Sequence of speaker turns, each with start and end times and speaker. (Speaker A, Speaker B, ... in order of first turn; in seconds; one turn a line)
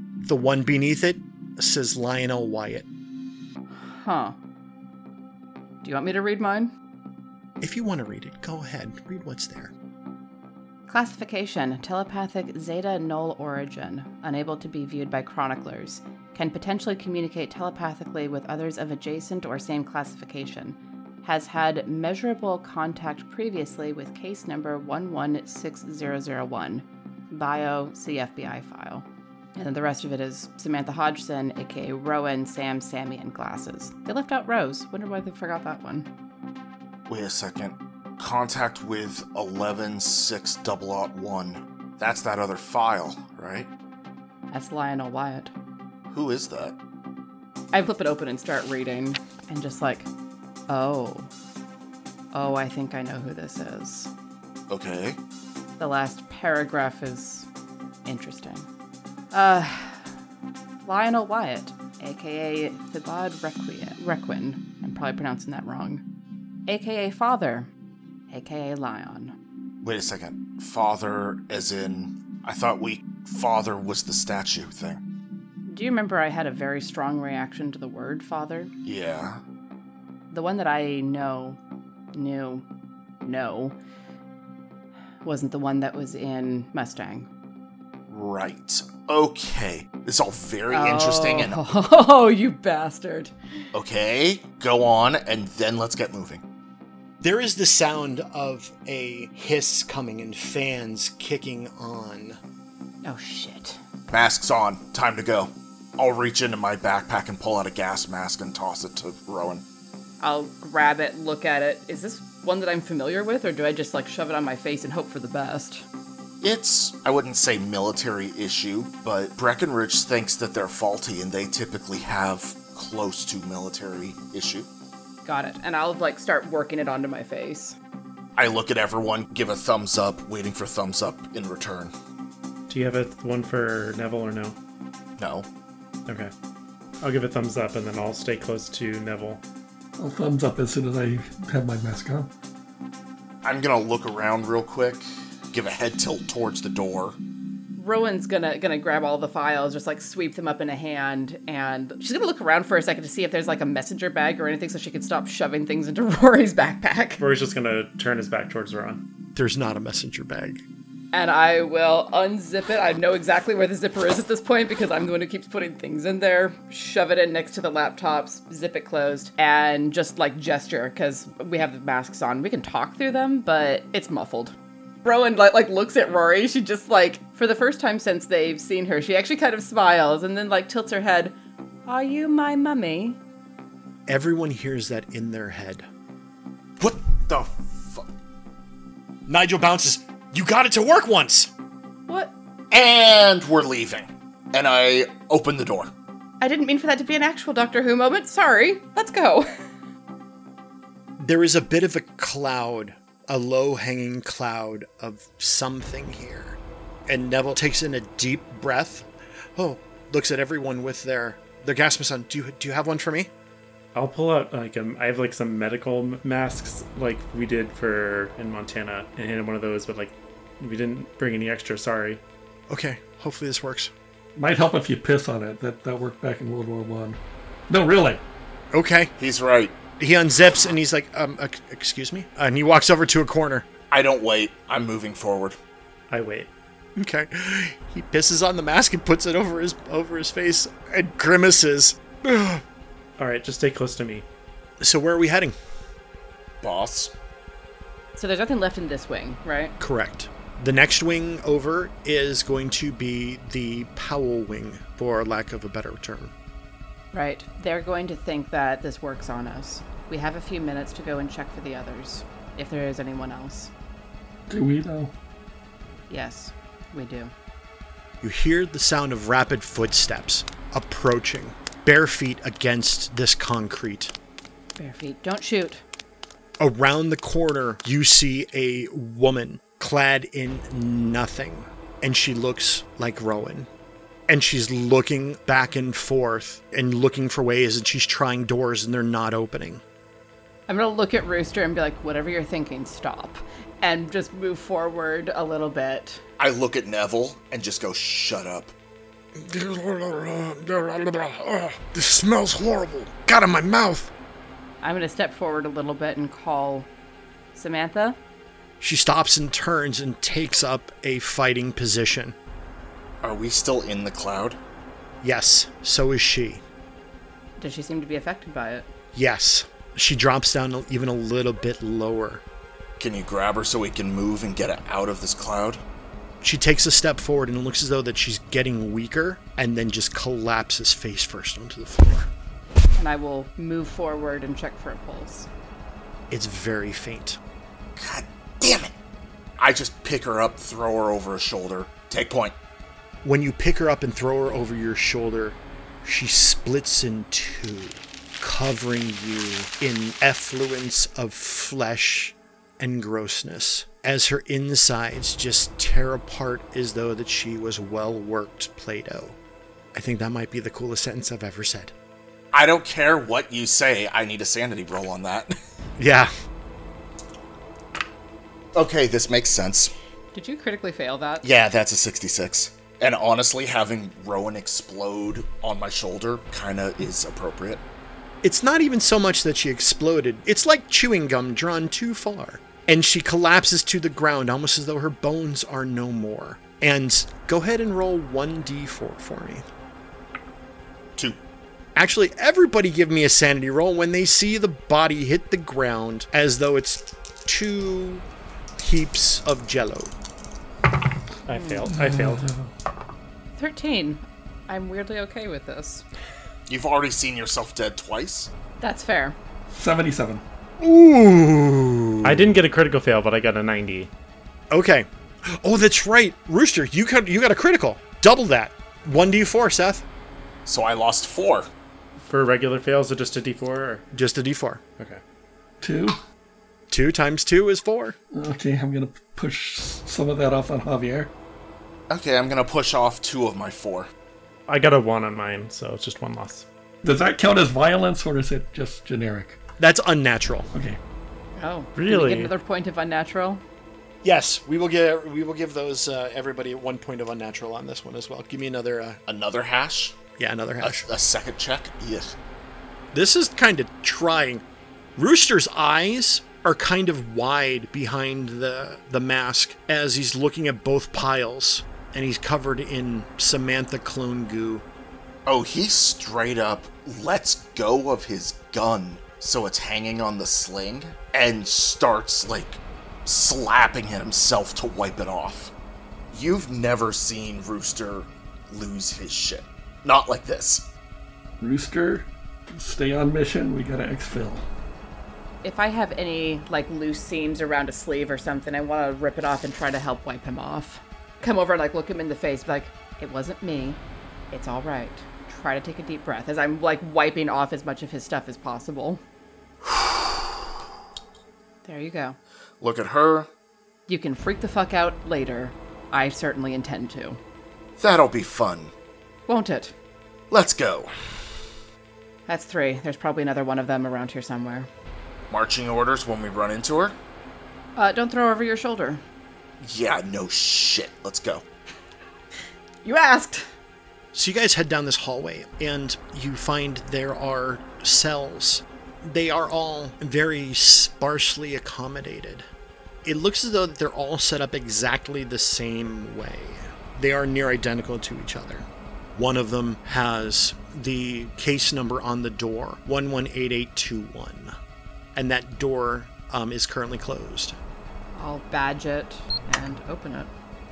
Speaker A: 0.2-2.9
Speaker B: 3.8-4.3
Speaker B: 5.8-6.7
Speaker A: 7.6-9.7
Speaker B: 10.9-36.1
Speaker C: 37.1-43.7
Speaker B: 44.5-45.5
Speaker C: 46.1-46.8
Speaker B: 47.7-50.1
Speaker B: 50.7-51.3
Speaker B: 52.3-54.1
Speaker C: 54.7-55.2
Speaker B: 55.8-57.5
Speaker B: 58.0-58.7
Speaker B: 59.3-60.1
Speaker B: 60.8-66.0
Speaker B: 66.7-67.7
Speaker B: 68.3-69.3
Speaker C: 69.8-75.0
Speaker B: 75.7-78.7
Speaker C: 78.8-79.4
Speaker B: 80.3-81.6
Speaker B: 82.1-82.7
Speaker B: 83.2-83.8
Speaker B: 85.2-87.3
Speaker C: 88.1-91.6
Speaker B: 90.7-93.3
Speaker C: 93.7-96.4
Speaker A: 97.2-102.4
Speaker B: 103.0-103.8
Speaker C: 104.1-109.6
Speaker B: 110.2-115.8
Speaker C: 116.4-124.7
Speaker B: 125.2-127.8
Speaker C: 128.4-131.9
Speaker D: 132.7-134.6
Speaker C: 135.2-135.5
Speaker D: 137.0-139.4
Speaker E: 140.0-142.3
Speaker C: 143.4-147.2
Speaker B: 147.8-157.2
Speaker D: 157.2-159.0
Speaker A: 159.3-160.6
Speaker B: 161.1-183.2
Speaker A: 184.1-185.9
Speaker C: 186.8-188.1
Speaker A: 189.3-191.5
Speaker B: 192.1-192.3
Speaker C: 192.7-195.9
Speaker B: 196.4-199.5
Speaker A: 201.2-213.3
Speaker D: 213.9-222.2
Speaker A: 222.7-223.9
Speaker E: 224.3-228.2
Speaker A: 228.7-229.1
Speaker C: 229.2-229.8
Speaker A: 230.0-233.7
Speaker C: 233.9-235.6
Speaker D: 236.1-236.5
Speaker A: 236.9-242.6
Speaker D: 243.2-244.2
Speaker A: 244.8-245.5
Speaker C: 246.6-247.1
Speaker B: 248.2-249.7
Speaker A: 249.8-256.3
Speaker B: 257.1-263.7
Speaker E: 264.5-265.1
Speaker B: 266.1-267.3
Speaker A: 268.2-274.1
Speaker B: 274.8-275.8
Speaker A: 276.6-283.7
Speaker A: 284.3-289.8
Speaker B: 290.7-296.2
Speaker C: 296.4-298.7
Speaker A: 299.4-304.1
Speaker B: 304.8-306.9
Speaker B: 307.5-308.2
Speaker A: 308.8-312.4
Speaker C: 313.2-314.6
Speaker A: 315.2-316.6
Speaker B: 317.6-318.9
Speaker A: 319.1-322.4
Speaker C: 323.0-325.8
Speaker A: 326.4-332.3
Speaker B: 333.0-335.5
Speaker A: 336.3-337.4
Speaker C: 337.9-338.9
Speaker C: 339.6-342.6
Speaker A: 343.2-359.4
Speaker A: 359.9-361.9
Speaker C: 362.5-365.5
Speaker A: 366.0-366.3
Speaker C: 368.7-369.9
Speaker B: 370.3-371.4
Speaker C: 371.4-377.8
Speaker A: 378.4-389.6
Speaker A: 391.9-398.2
Speaker A: 398.8-400.1
Speaker D: 401.4-402.5
Speaker B: 401.5-401.9
Speaker E: 401.9-402.7
Speaker B: 403.6-406.0
Speaker C: 406.7-408.5
Speaker B: 408.8-409.4
Speaker E: 409.7-410.4
Speaker A: 410.8-412.5
Speaker D: 412.2-414.1
Speaker A: 414.7-420.0
Speaker C: 420.6-421.7
Speaker D: 422.2-424.0
Speaker A: 424.1-424.8
Speaker E: 425.8-426.2
Speaker A: 426.9-428.1
Speaker E: 428.3-431.3
Speaker C: 432.1-434.1
Speaker D: 434.7-436.7
Speaker E: 437.0-439.6
Speaker A: 439.8-440.7
Speaker B: 441.6-443.6
Speaker D: 441.9-442.5
Speaker A: 444.2-449.2
Speaker C: 449.3-450.2
Speaker A: 450.4-451.1
Speaker C: 450.8-452.4
Speaker A: 453.1-454.6
Speaker A: 455.1-464.8
Speaker C: 465.4-475.7
Speaker C: 476.3-480.9
Speaker E: 481.6-484.6
Speaker B: 485.6-499.2
Speaker C: 499.8-500.1
Speaker B: 501.8-502.4
Speaker C: 502.8-503.5
Speaker B: 504.1-507.4
Speaker C: 508.0-508.9
Speaker B: 509.5-509.9
Speaker C: 510.5-511.1
Speaker B: 512.5-514.9
Speaker C: 515.5-517.1
Speaker B: 518.0-519.2
Speaker C: 519.8-521.6
Speaker B: 523.0-523.7
Speaker A: 524.3-532.6
Speaker A: 533.2-544.7
Speaker A: 545.3-547.8
Speaker B: 548.3-550.5